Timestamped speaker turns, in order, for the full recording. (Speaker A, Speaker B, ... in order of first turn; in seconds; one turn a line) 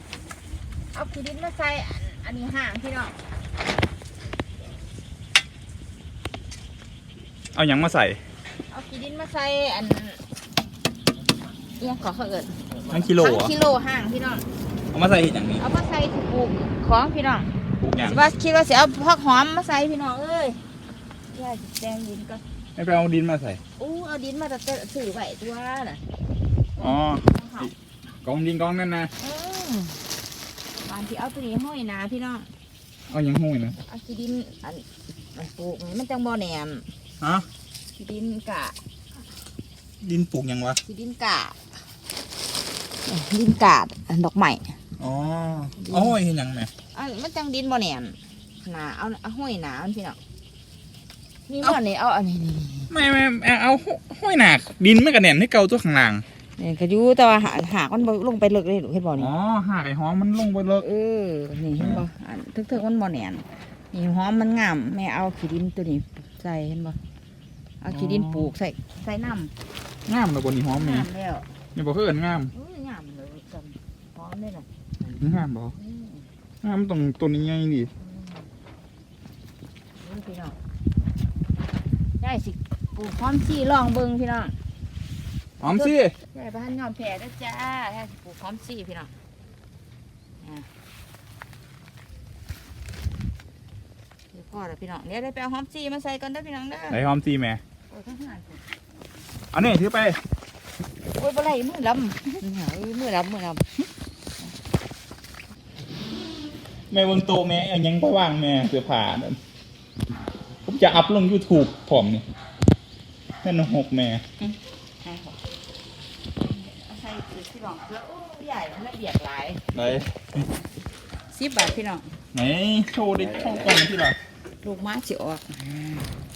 Speaker A: 0.9-3.2
Speaker B: 7.5-8.2
Speaker A: 8.7-10.2
Speaker A: 11.8-14.4
Speaker B: 12.9-13.5
Speaker B: 14.9-15.6
Speaker A: 15.6-20.6
Speaker B: 17.8-18.2
Speaker A: 21.3-22.4
Speaker B: 22.8-23.6
Speaker A: 23.8-26.1
Speaker A: 26.8-27.7
Speaker B: 26.8-27.7
Speaker B: 28.2-29.1
Speaker A: 29.2-30.0
Speaker A: 30.7-32.5
Speaker B: 33.1-33.8
Speaker A: 33.8-36.9
Speaker B: 37.2-37.5
Speaker A: 38.0-38.8
Speaker B: 40.0-40.8
Speaker A: 40.9-41.6
Speaker A: 43.0-44.8
Speaker B: 45.0-46.7
Speaker A: 45.8-46.2
Speaker A: 46.9-50.2
Speaker A: 51.5-52.9
Speaker B: 52.9-56.2
Speaker A: 56.6-59.3
Speaker B: 59.2-60.9
Speaker A: 60.8-67.0
Speaker A: 67.8-69.5
Speaker B: 67.9-68.5
Speaker B: 70.1-71.1
Speaker A: 70.7-71.5
Speaker B: 71.8-72.5
Speaker A: 72.5-75.2
Speaker B: 75.2-75.8
Speaker A: 75.8-76.2
Speaker B: 76.6-77.9
Speaker A: 78.0-78.5
Speaker A: 80.0-80.6
Speaker A: 82.2-84.6
Speaker B: 85.6-86.2
Speaker A: 85.6-89.2
Speaker A: 90.4-90.7
Speaker A: 94.3-97.0
Speaker B: 96.9-97.6
Speaker A: 97.9-98.6
Speaker B: 99.5-100.2
Speaker A: 101.2-103.8
Speaker B: 106.9-109.4
Speaker B: 110.7-112.3
Speaker B: 113.4-114.2
Speaker A: 114.4-115.4
Speaker A: 116.5-119.7
Speaker B: 119.7-120.5
Speaker A: 121.3-122.1
Speaker B: 122.3-124.2
Speaker A: 124.6-126.1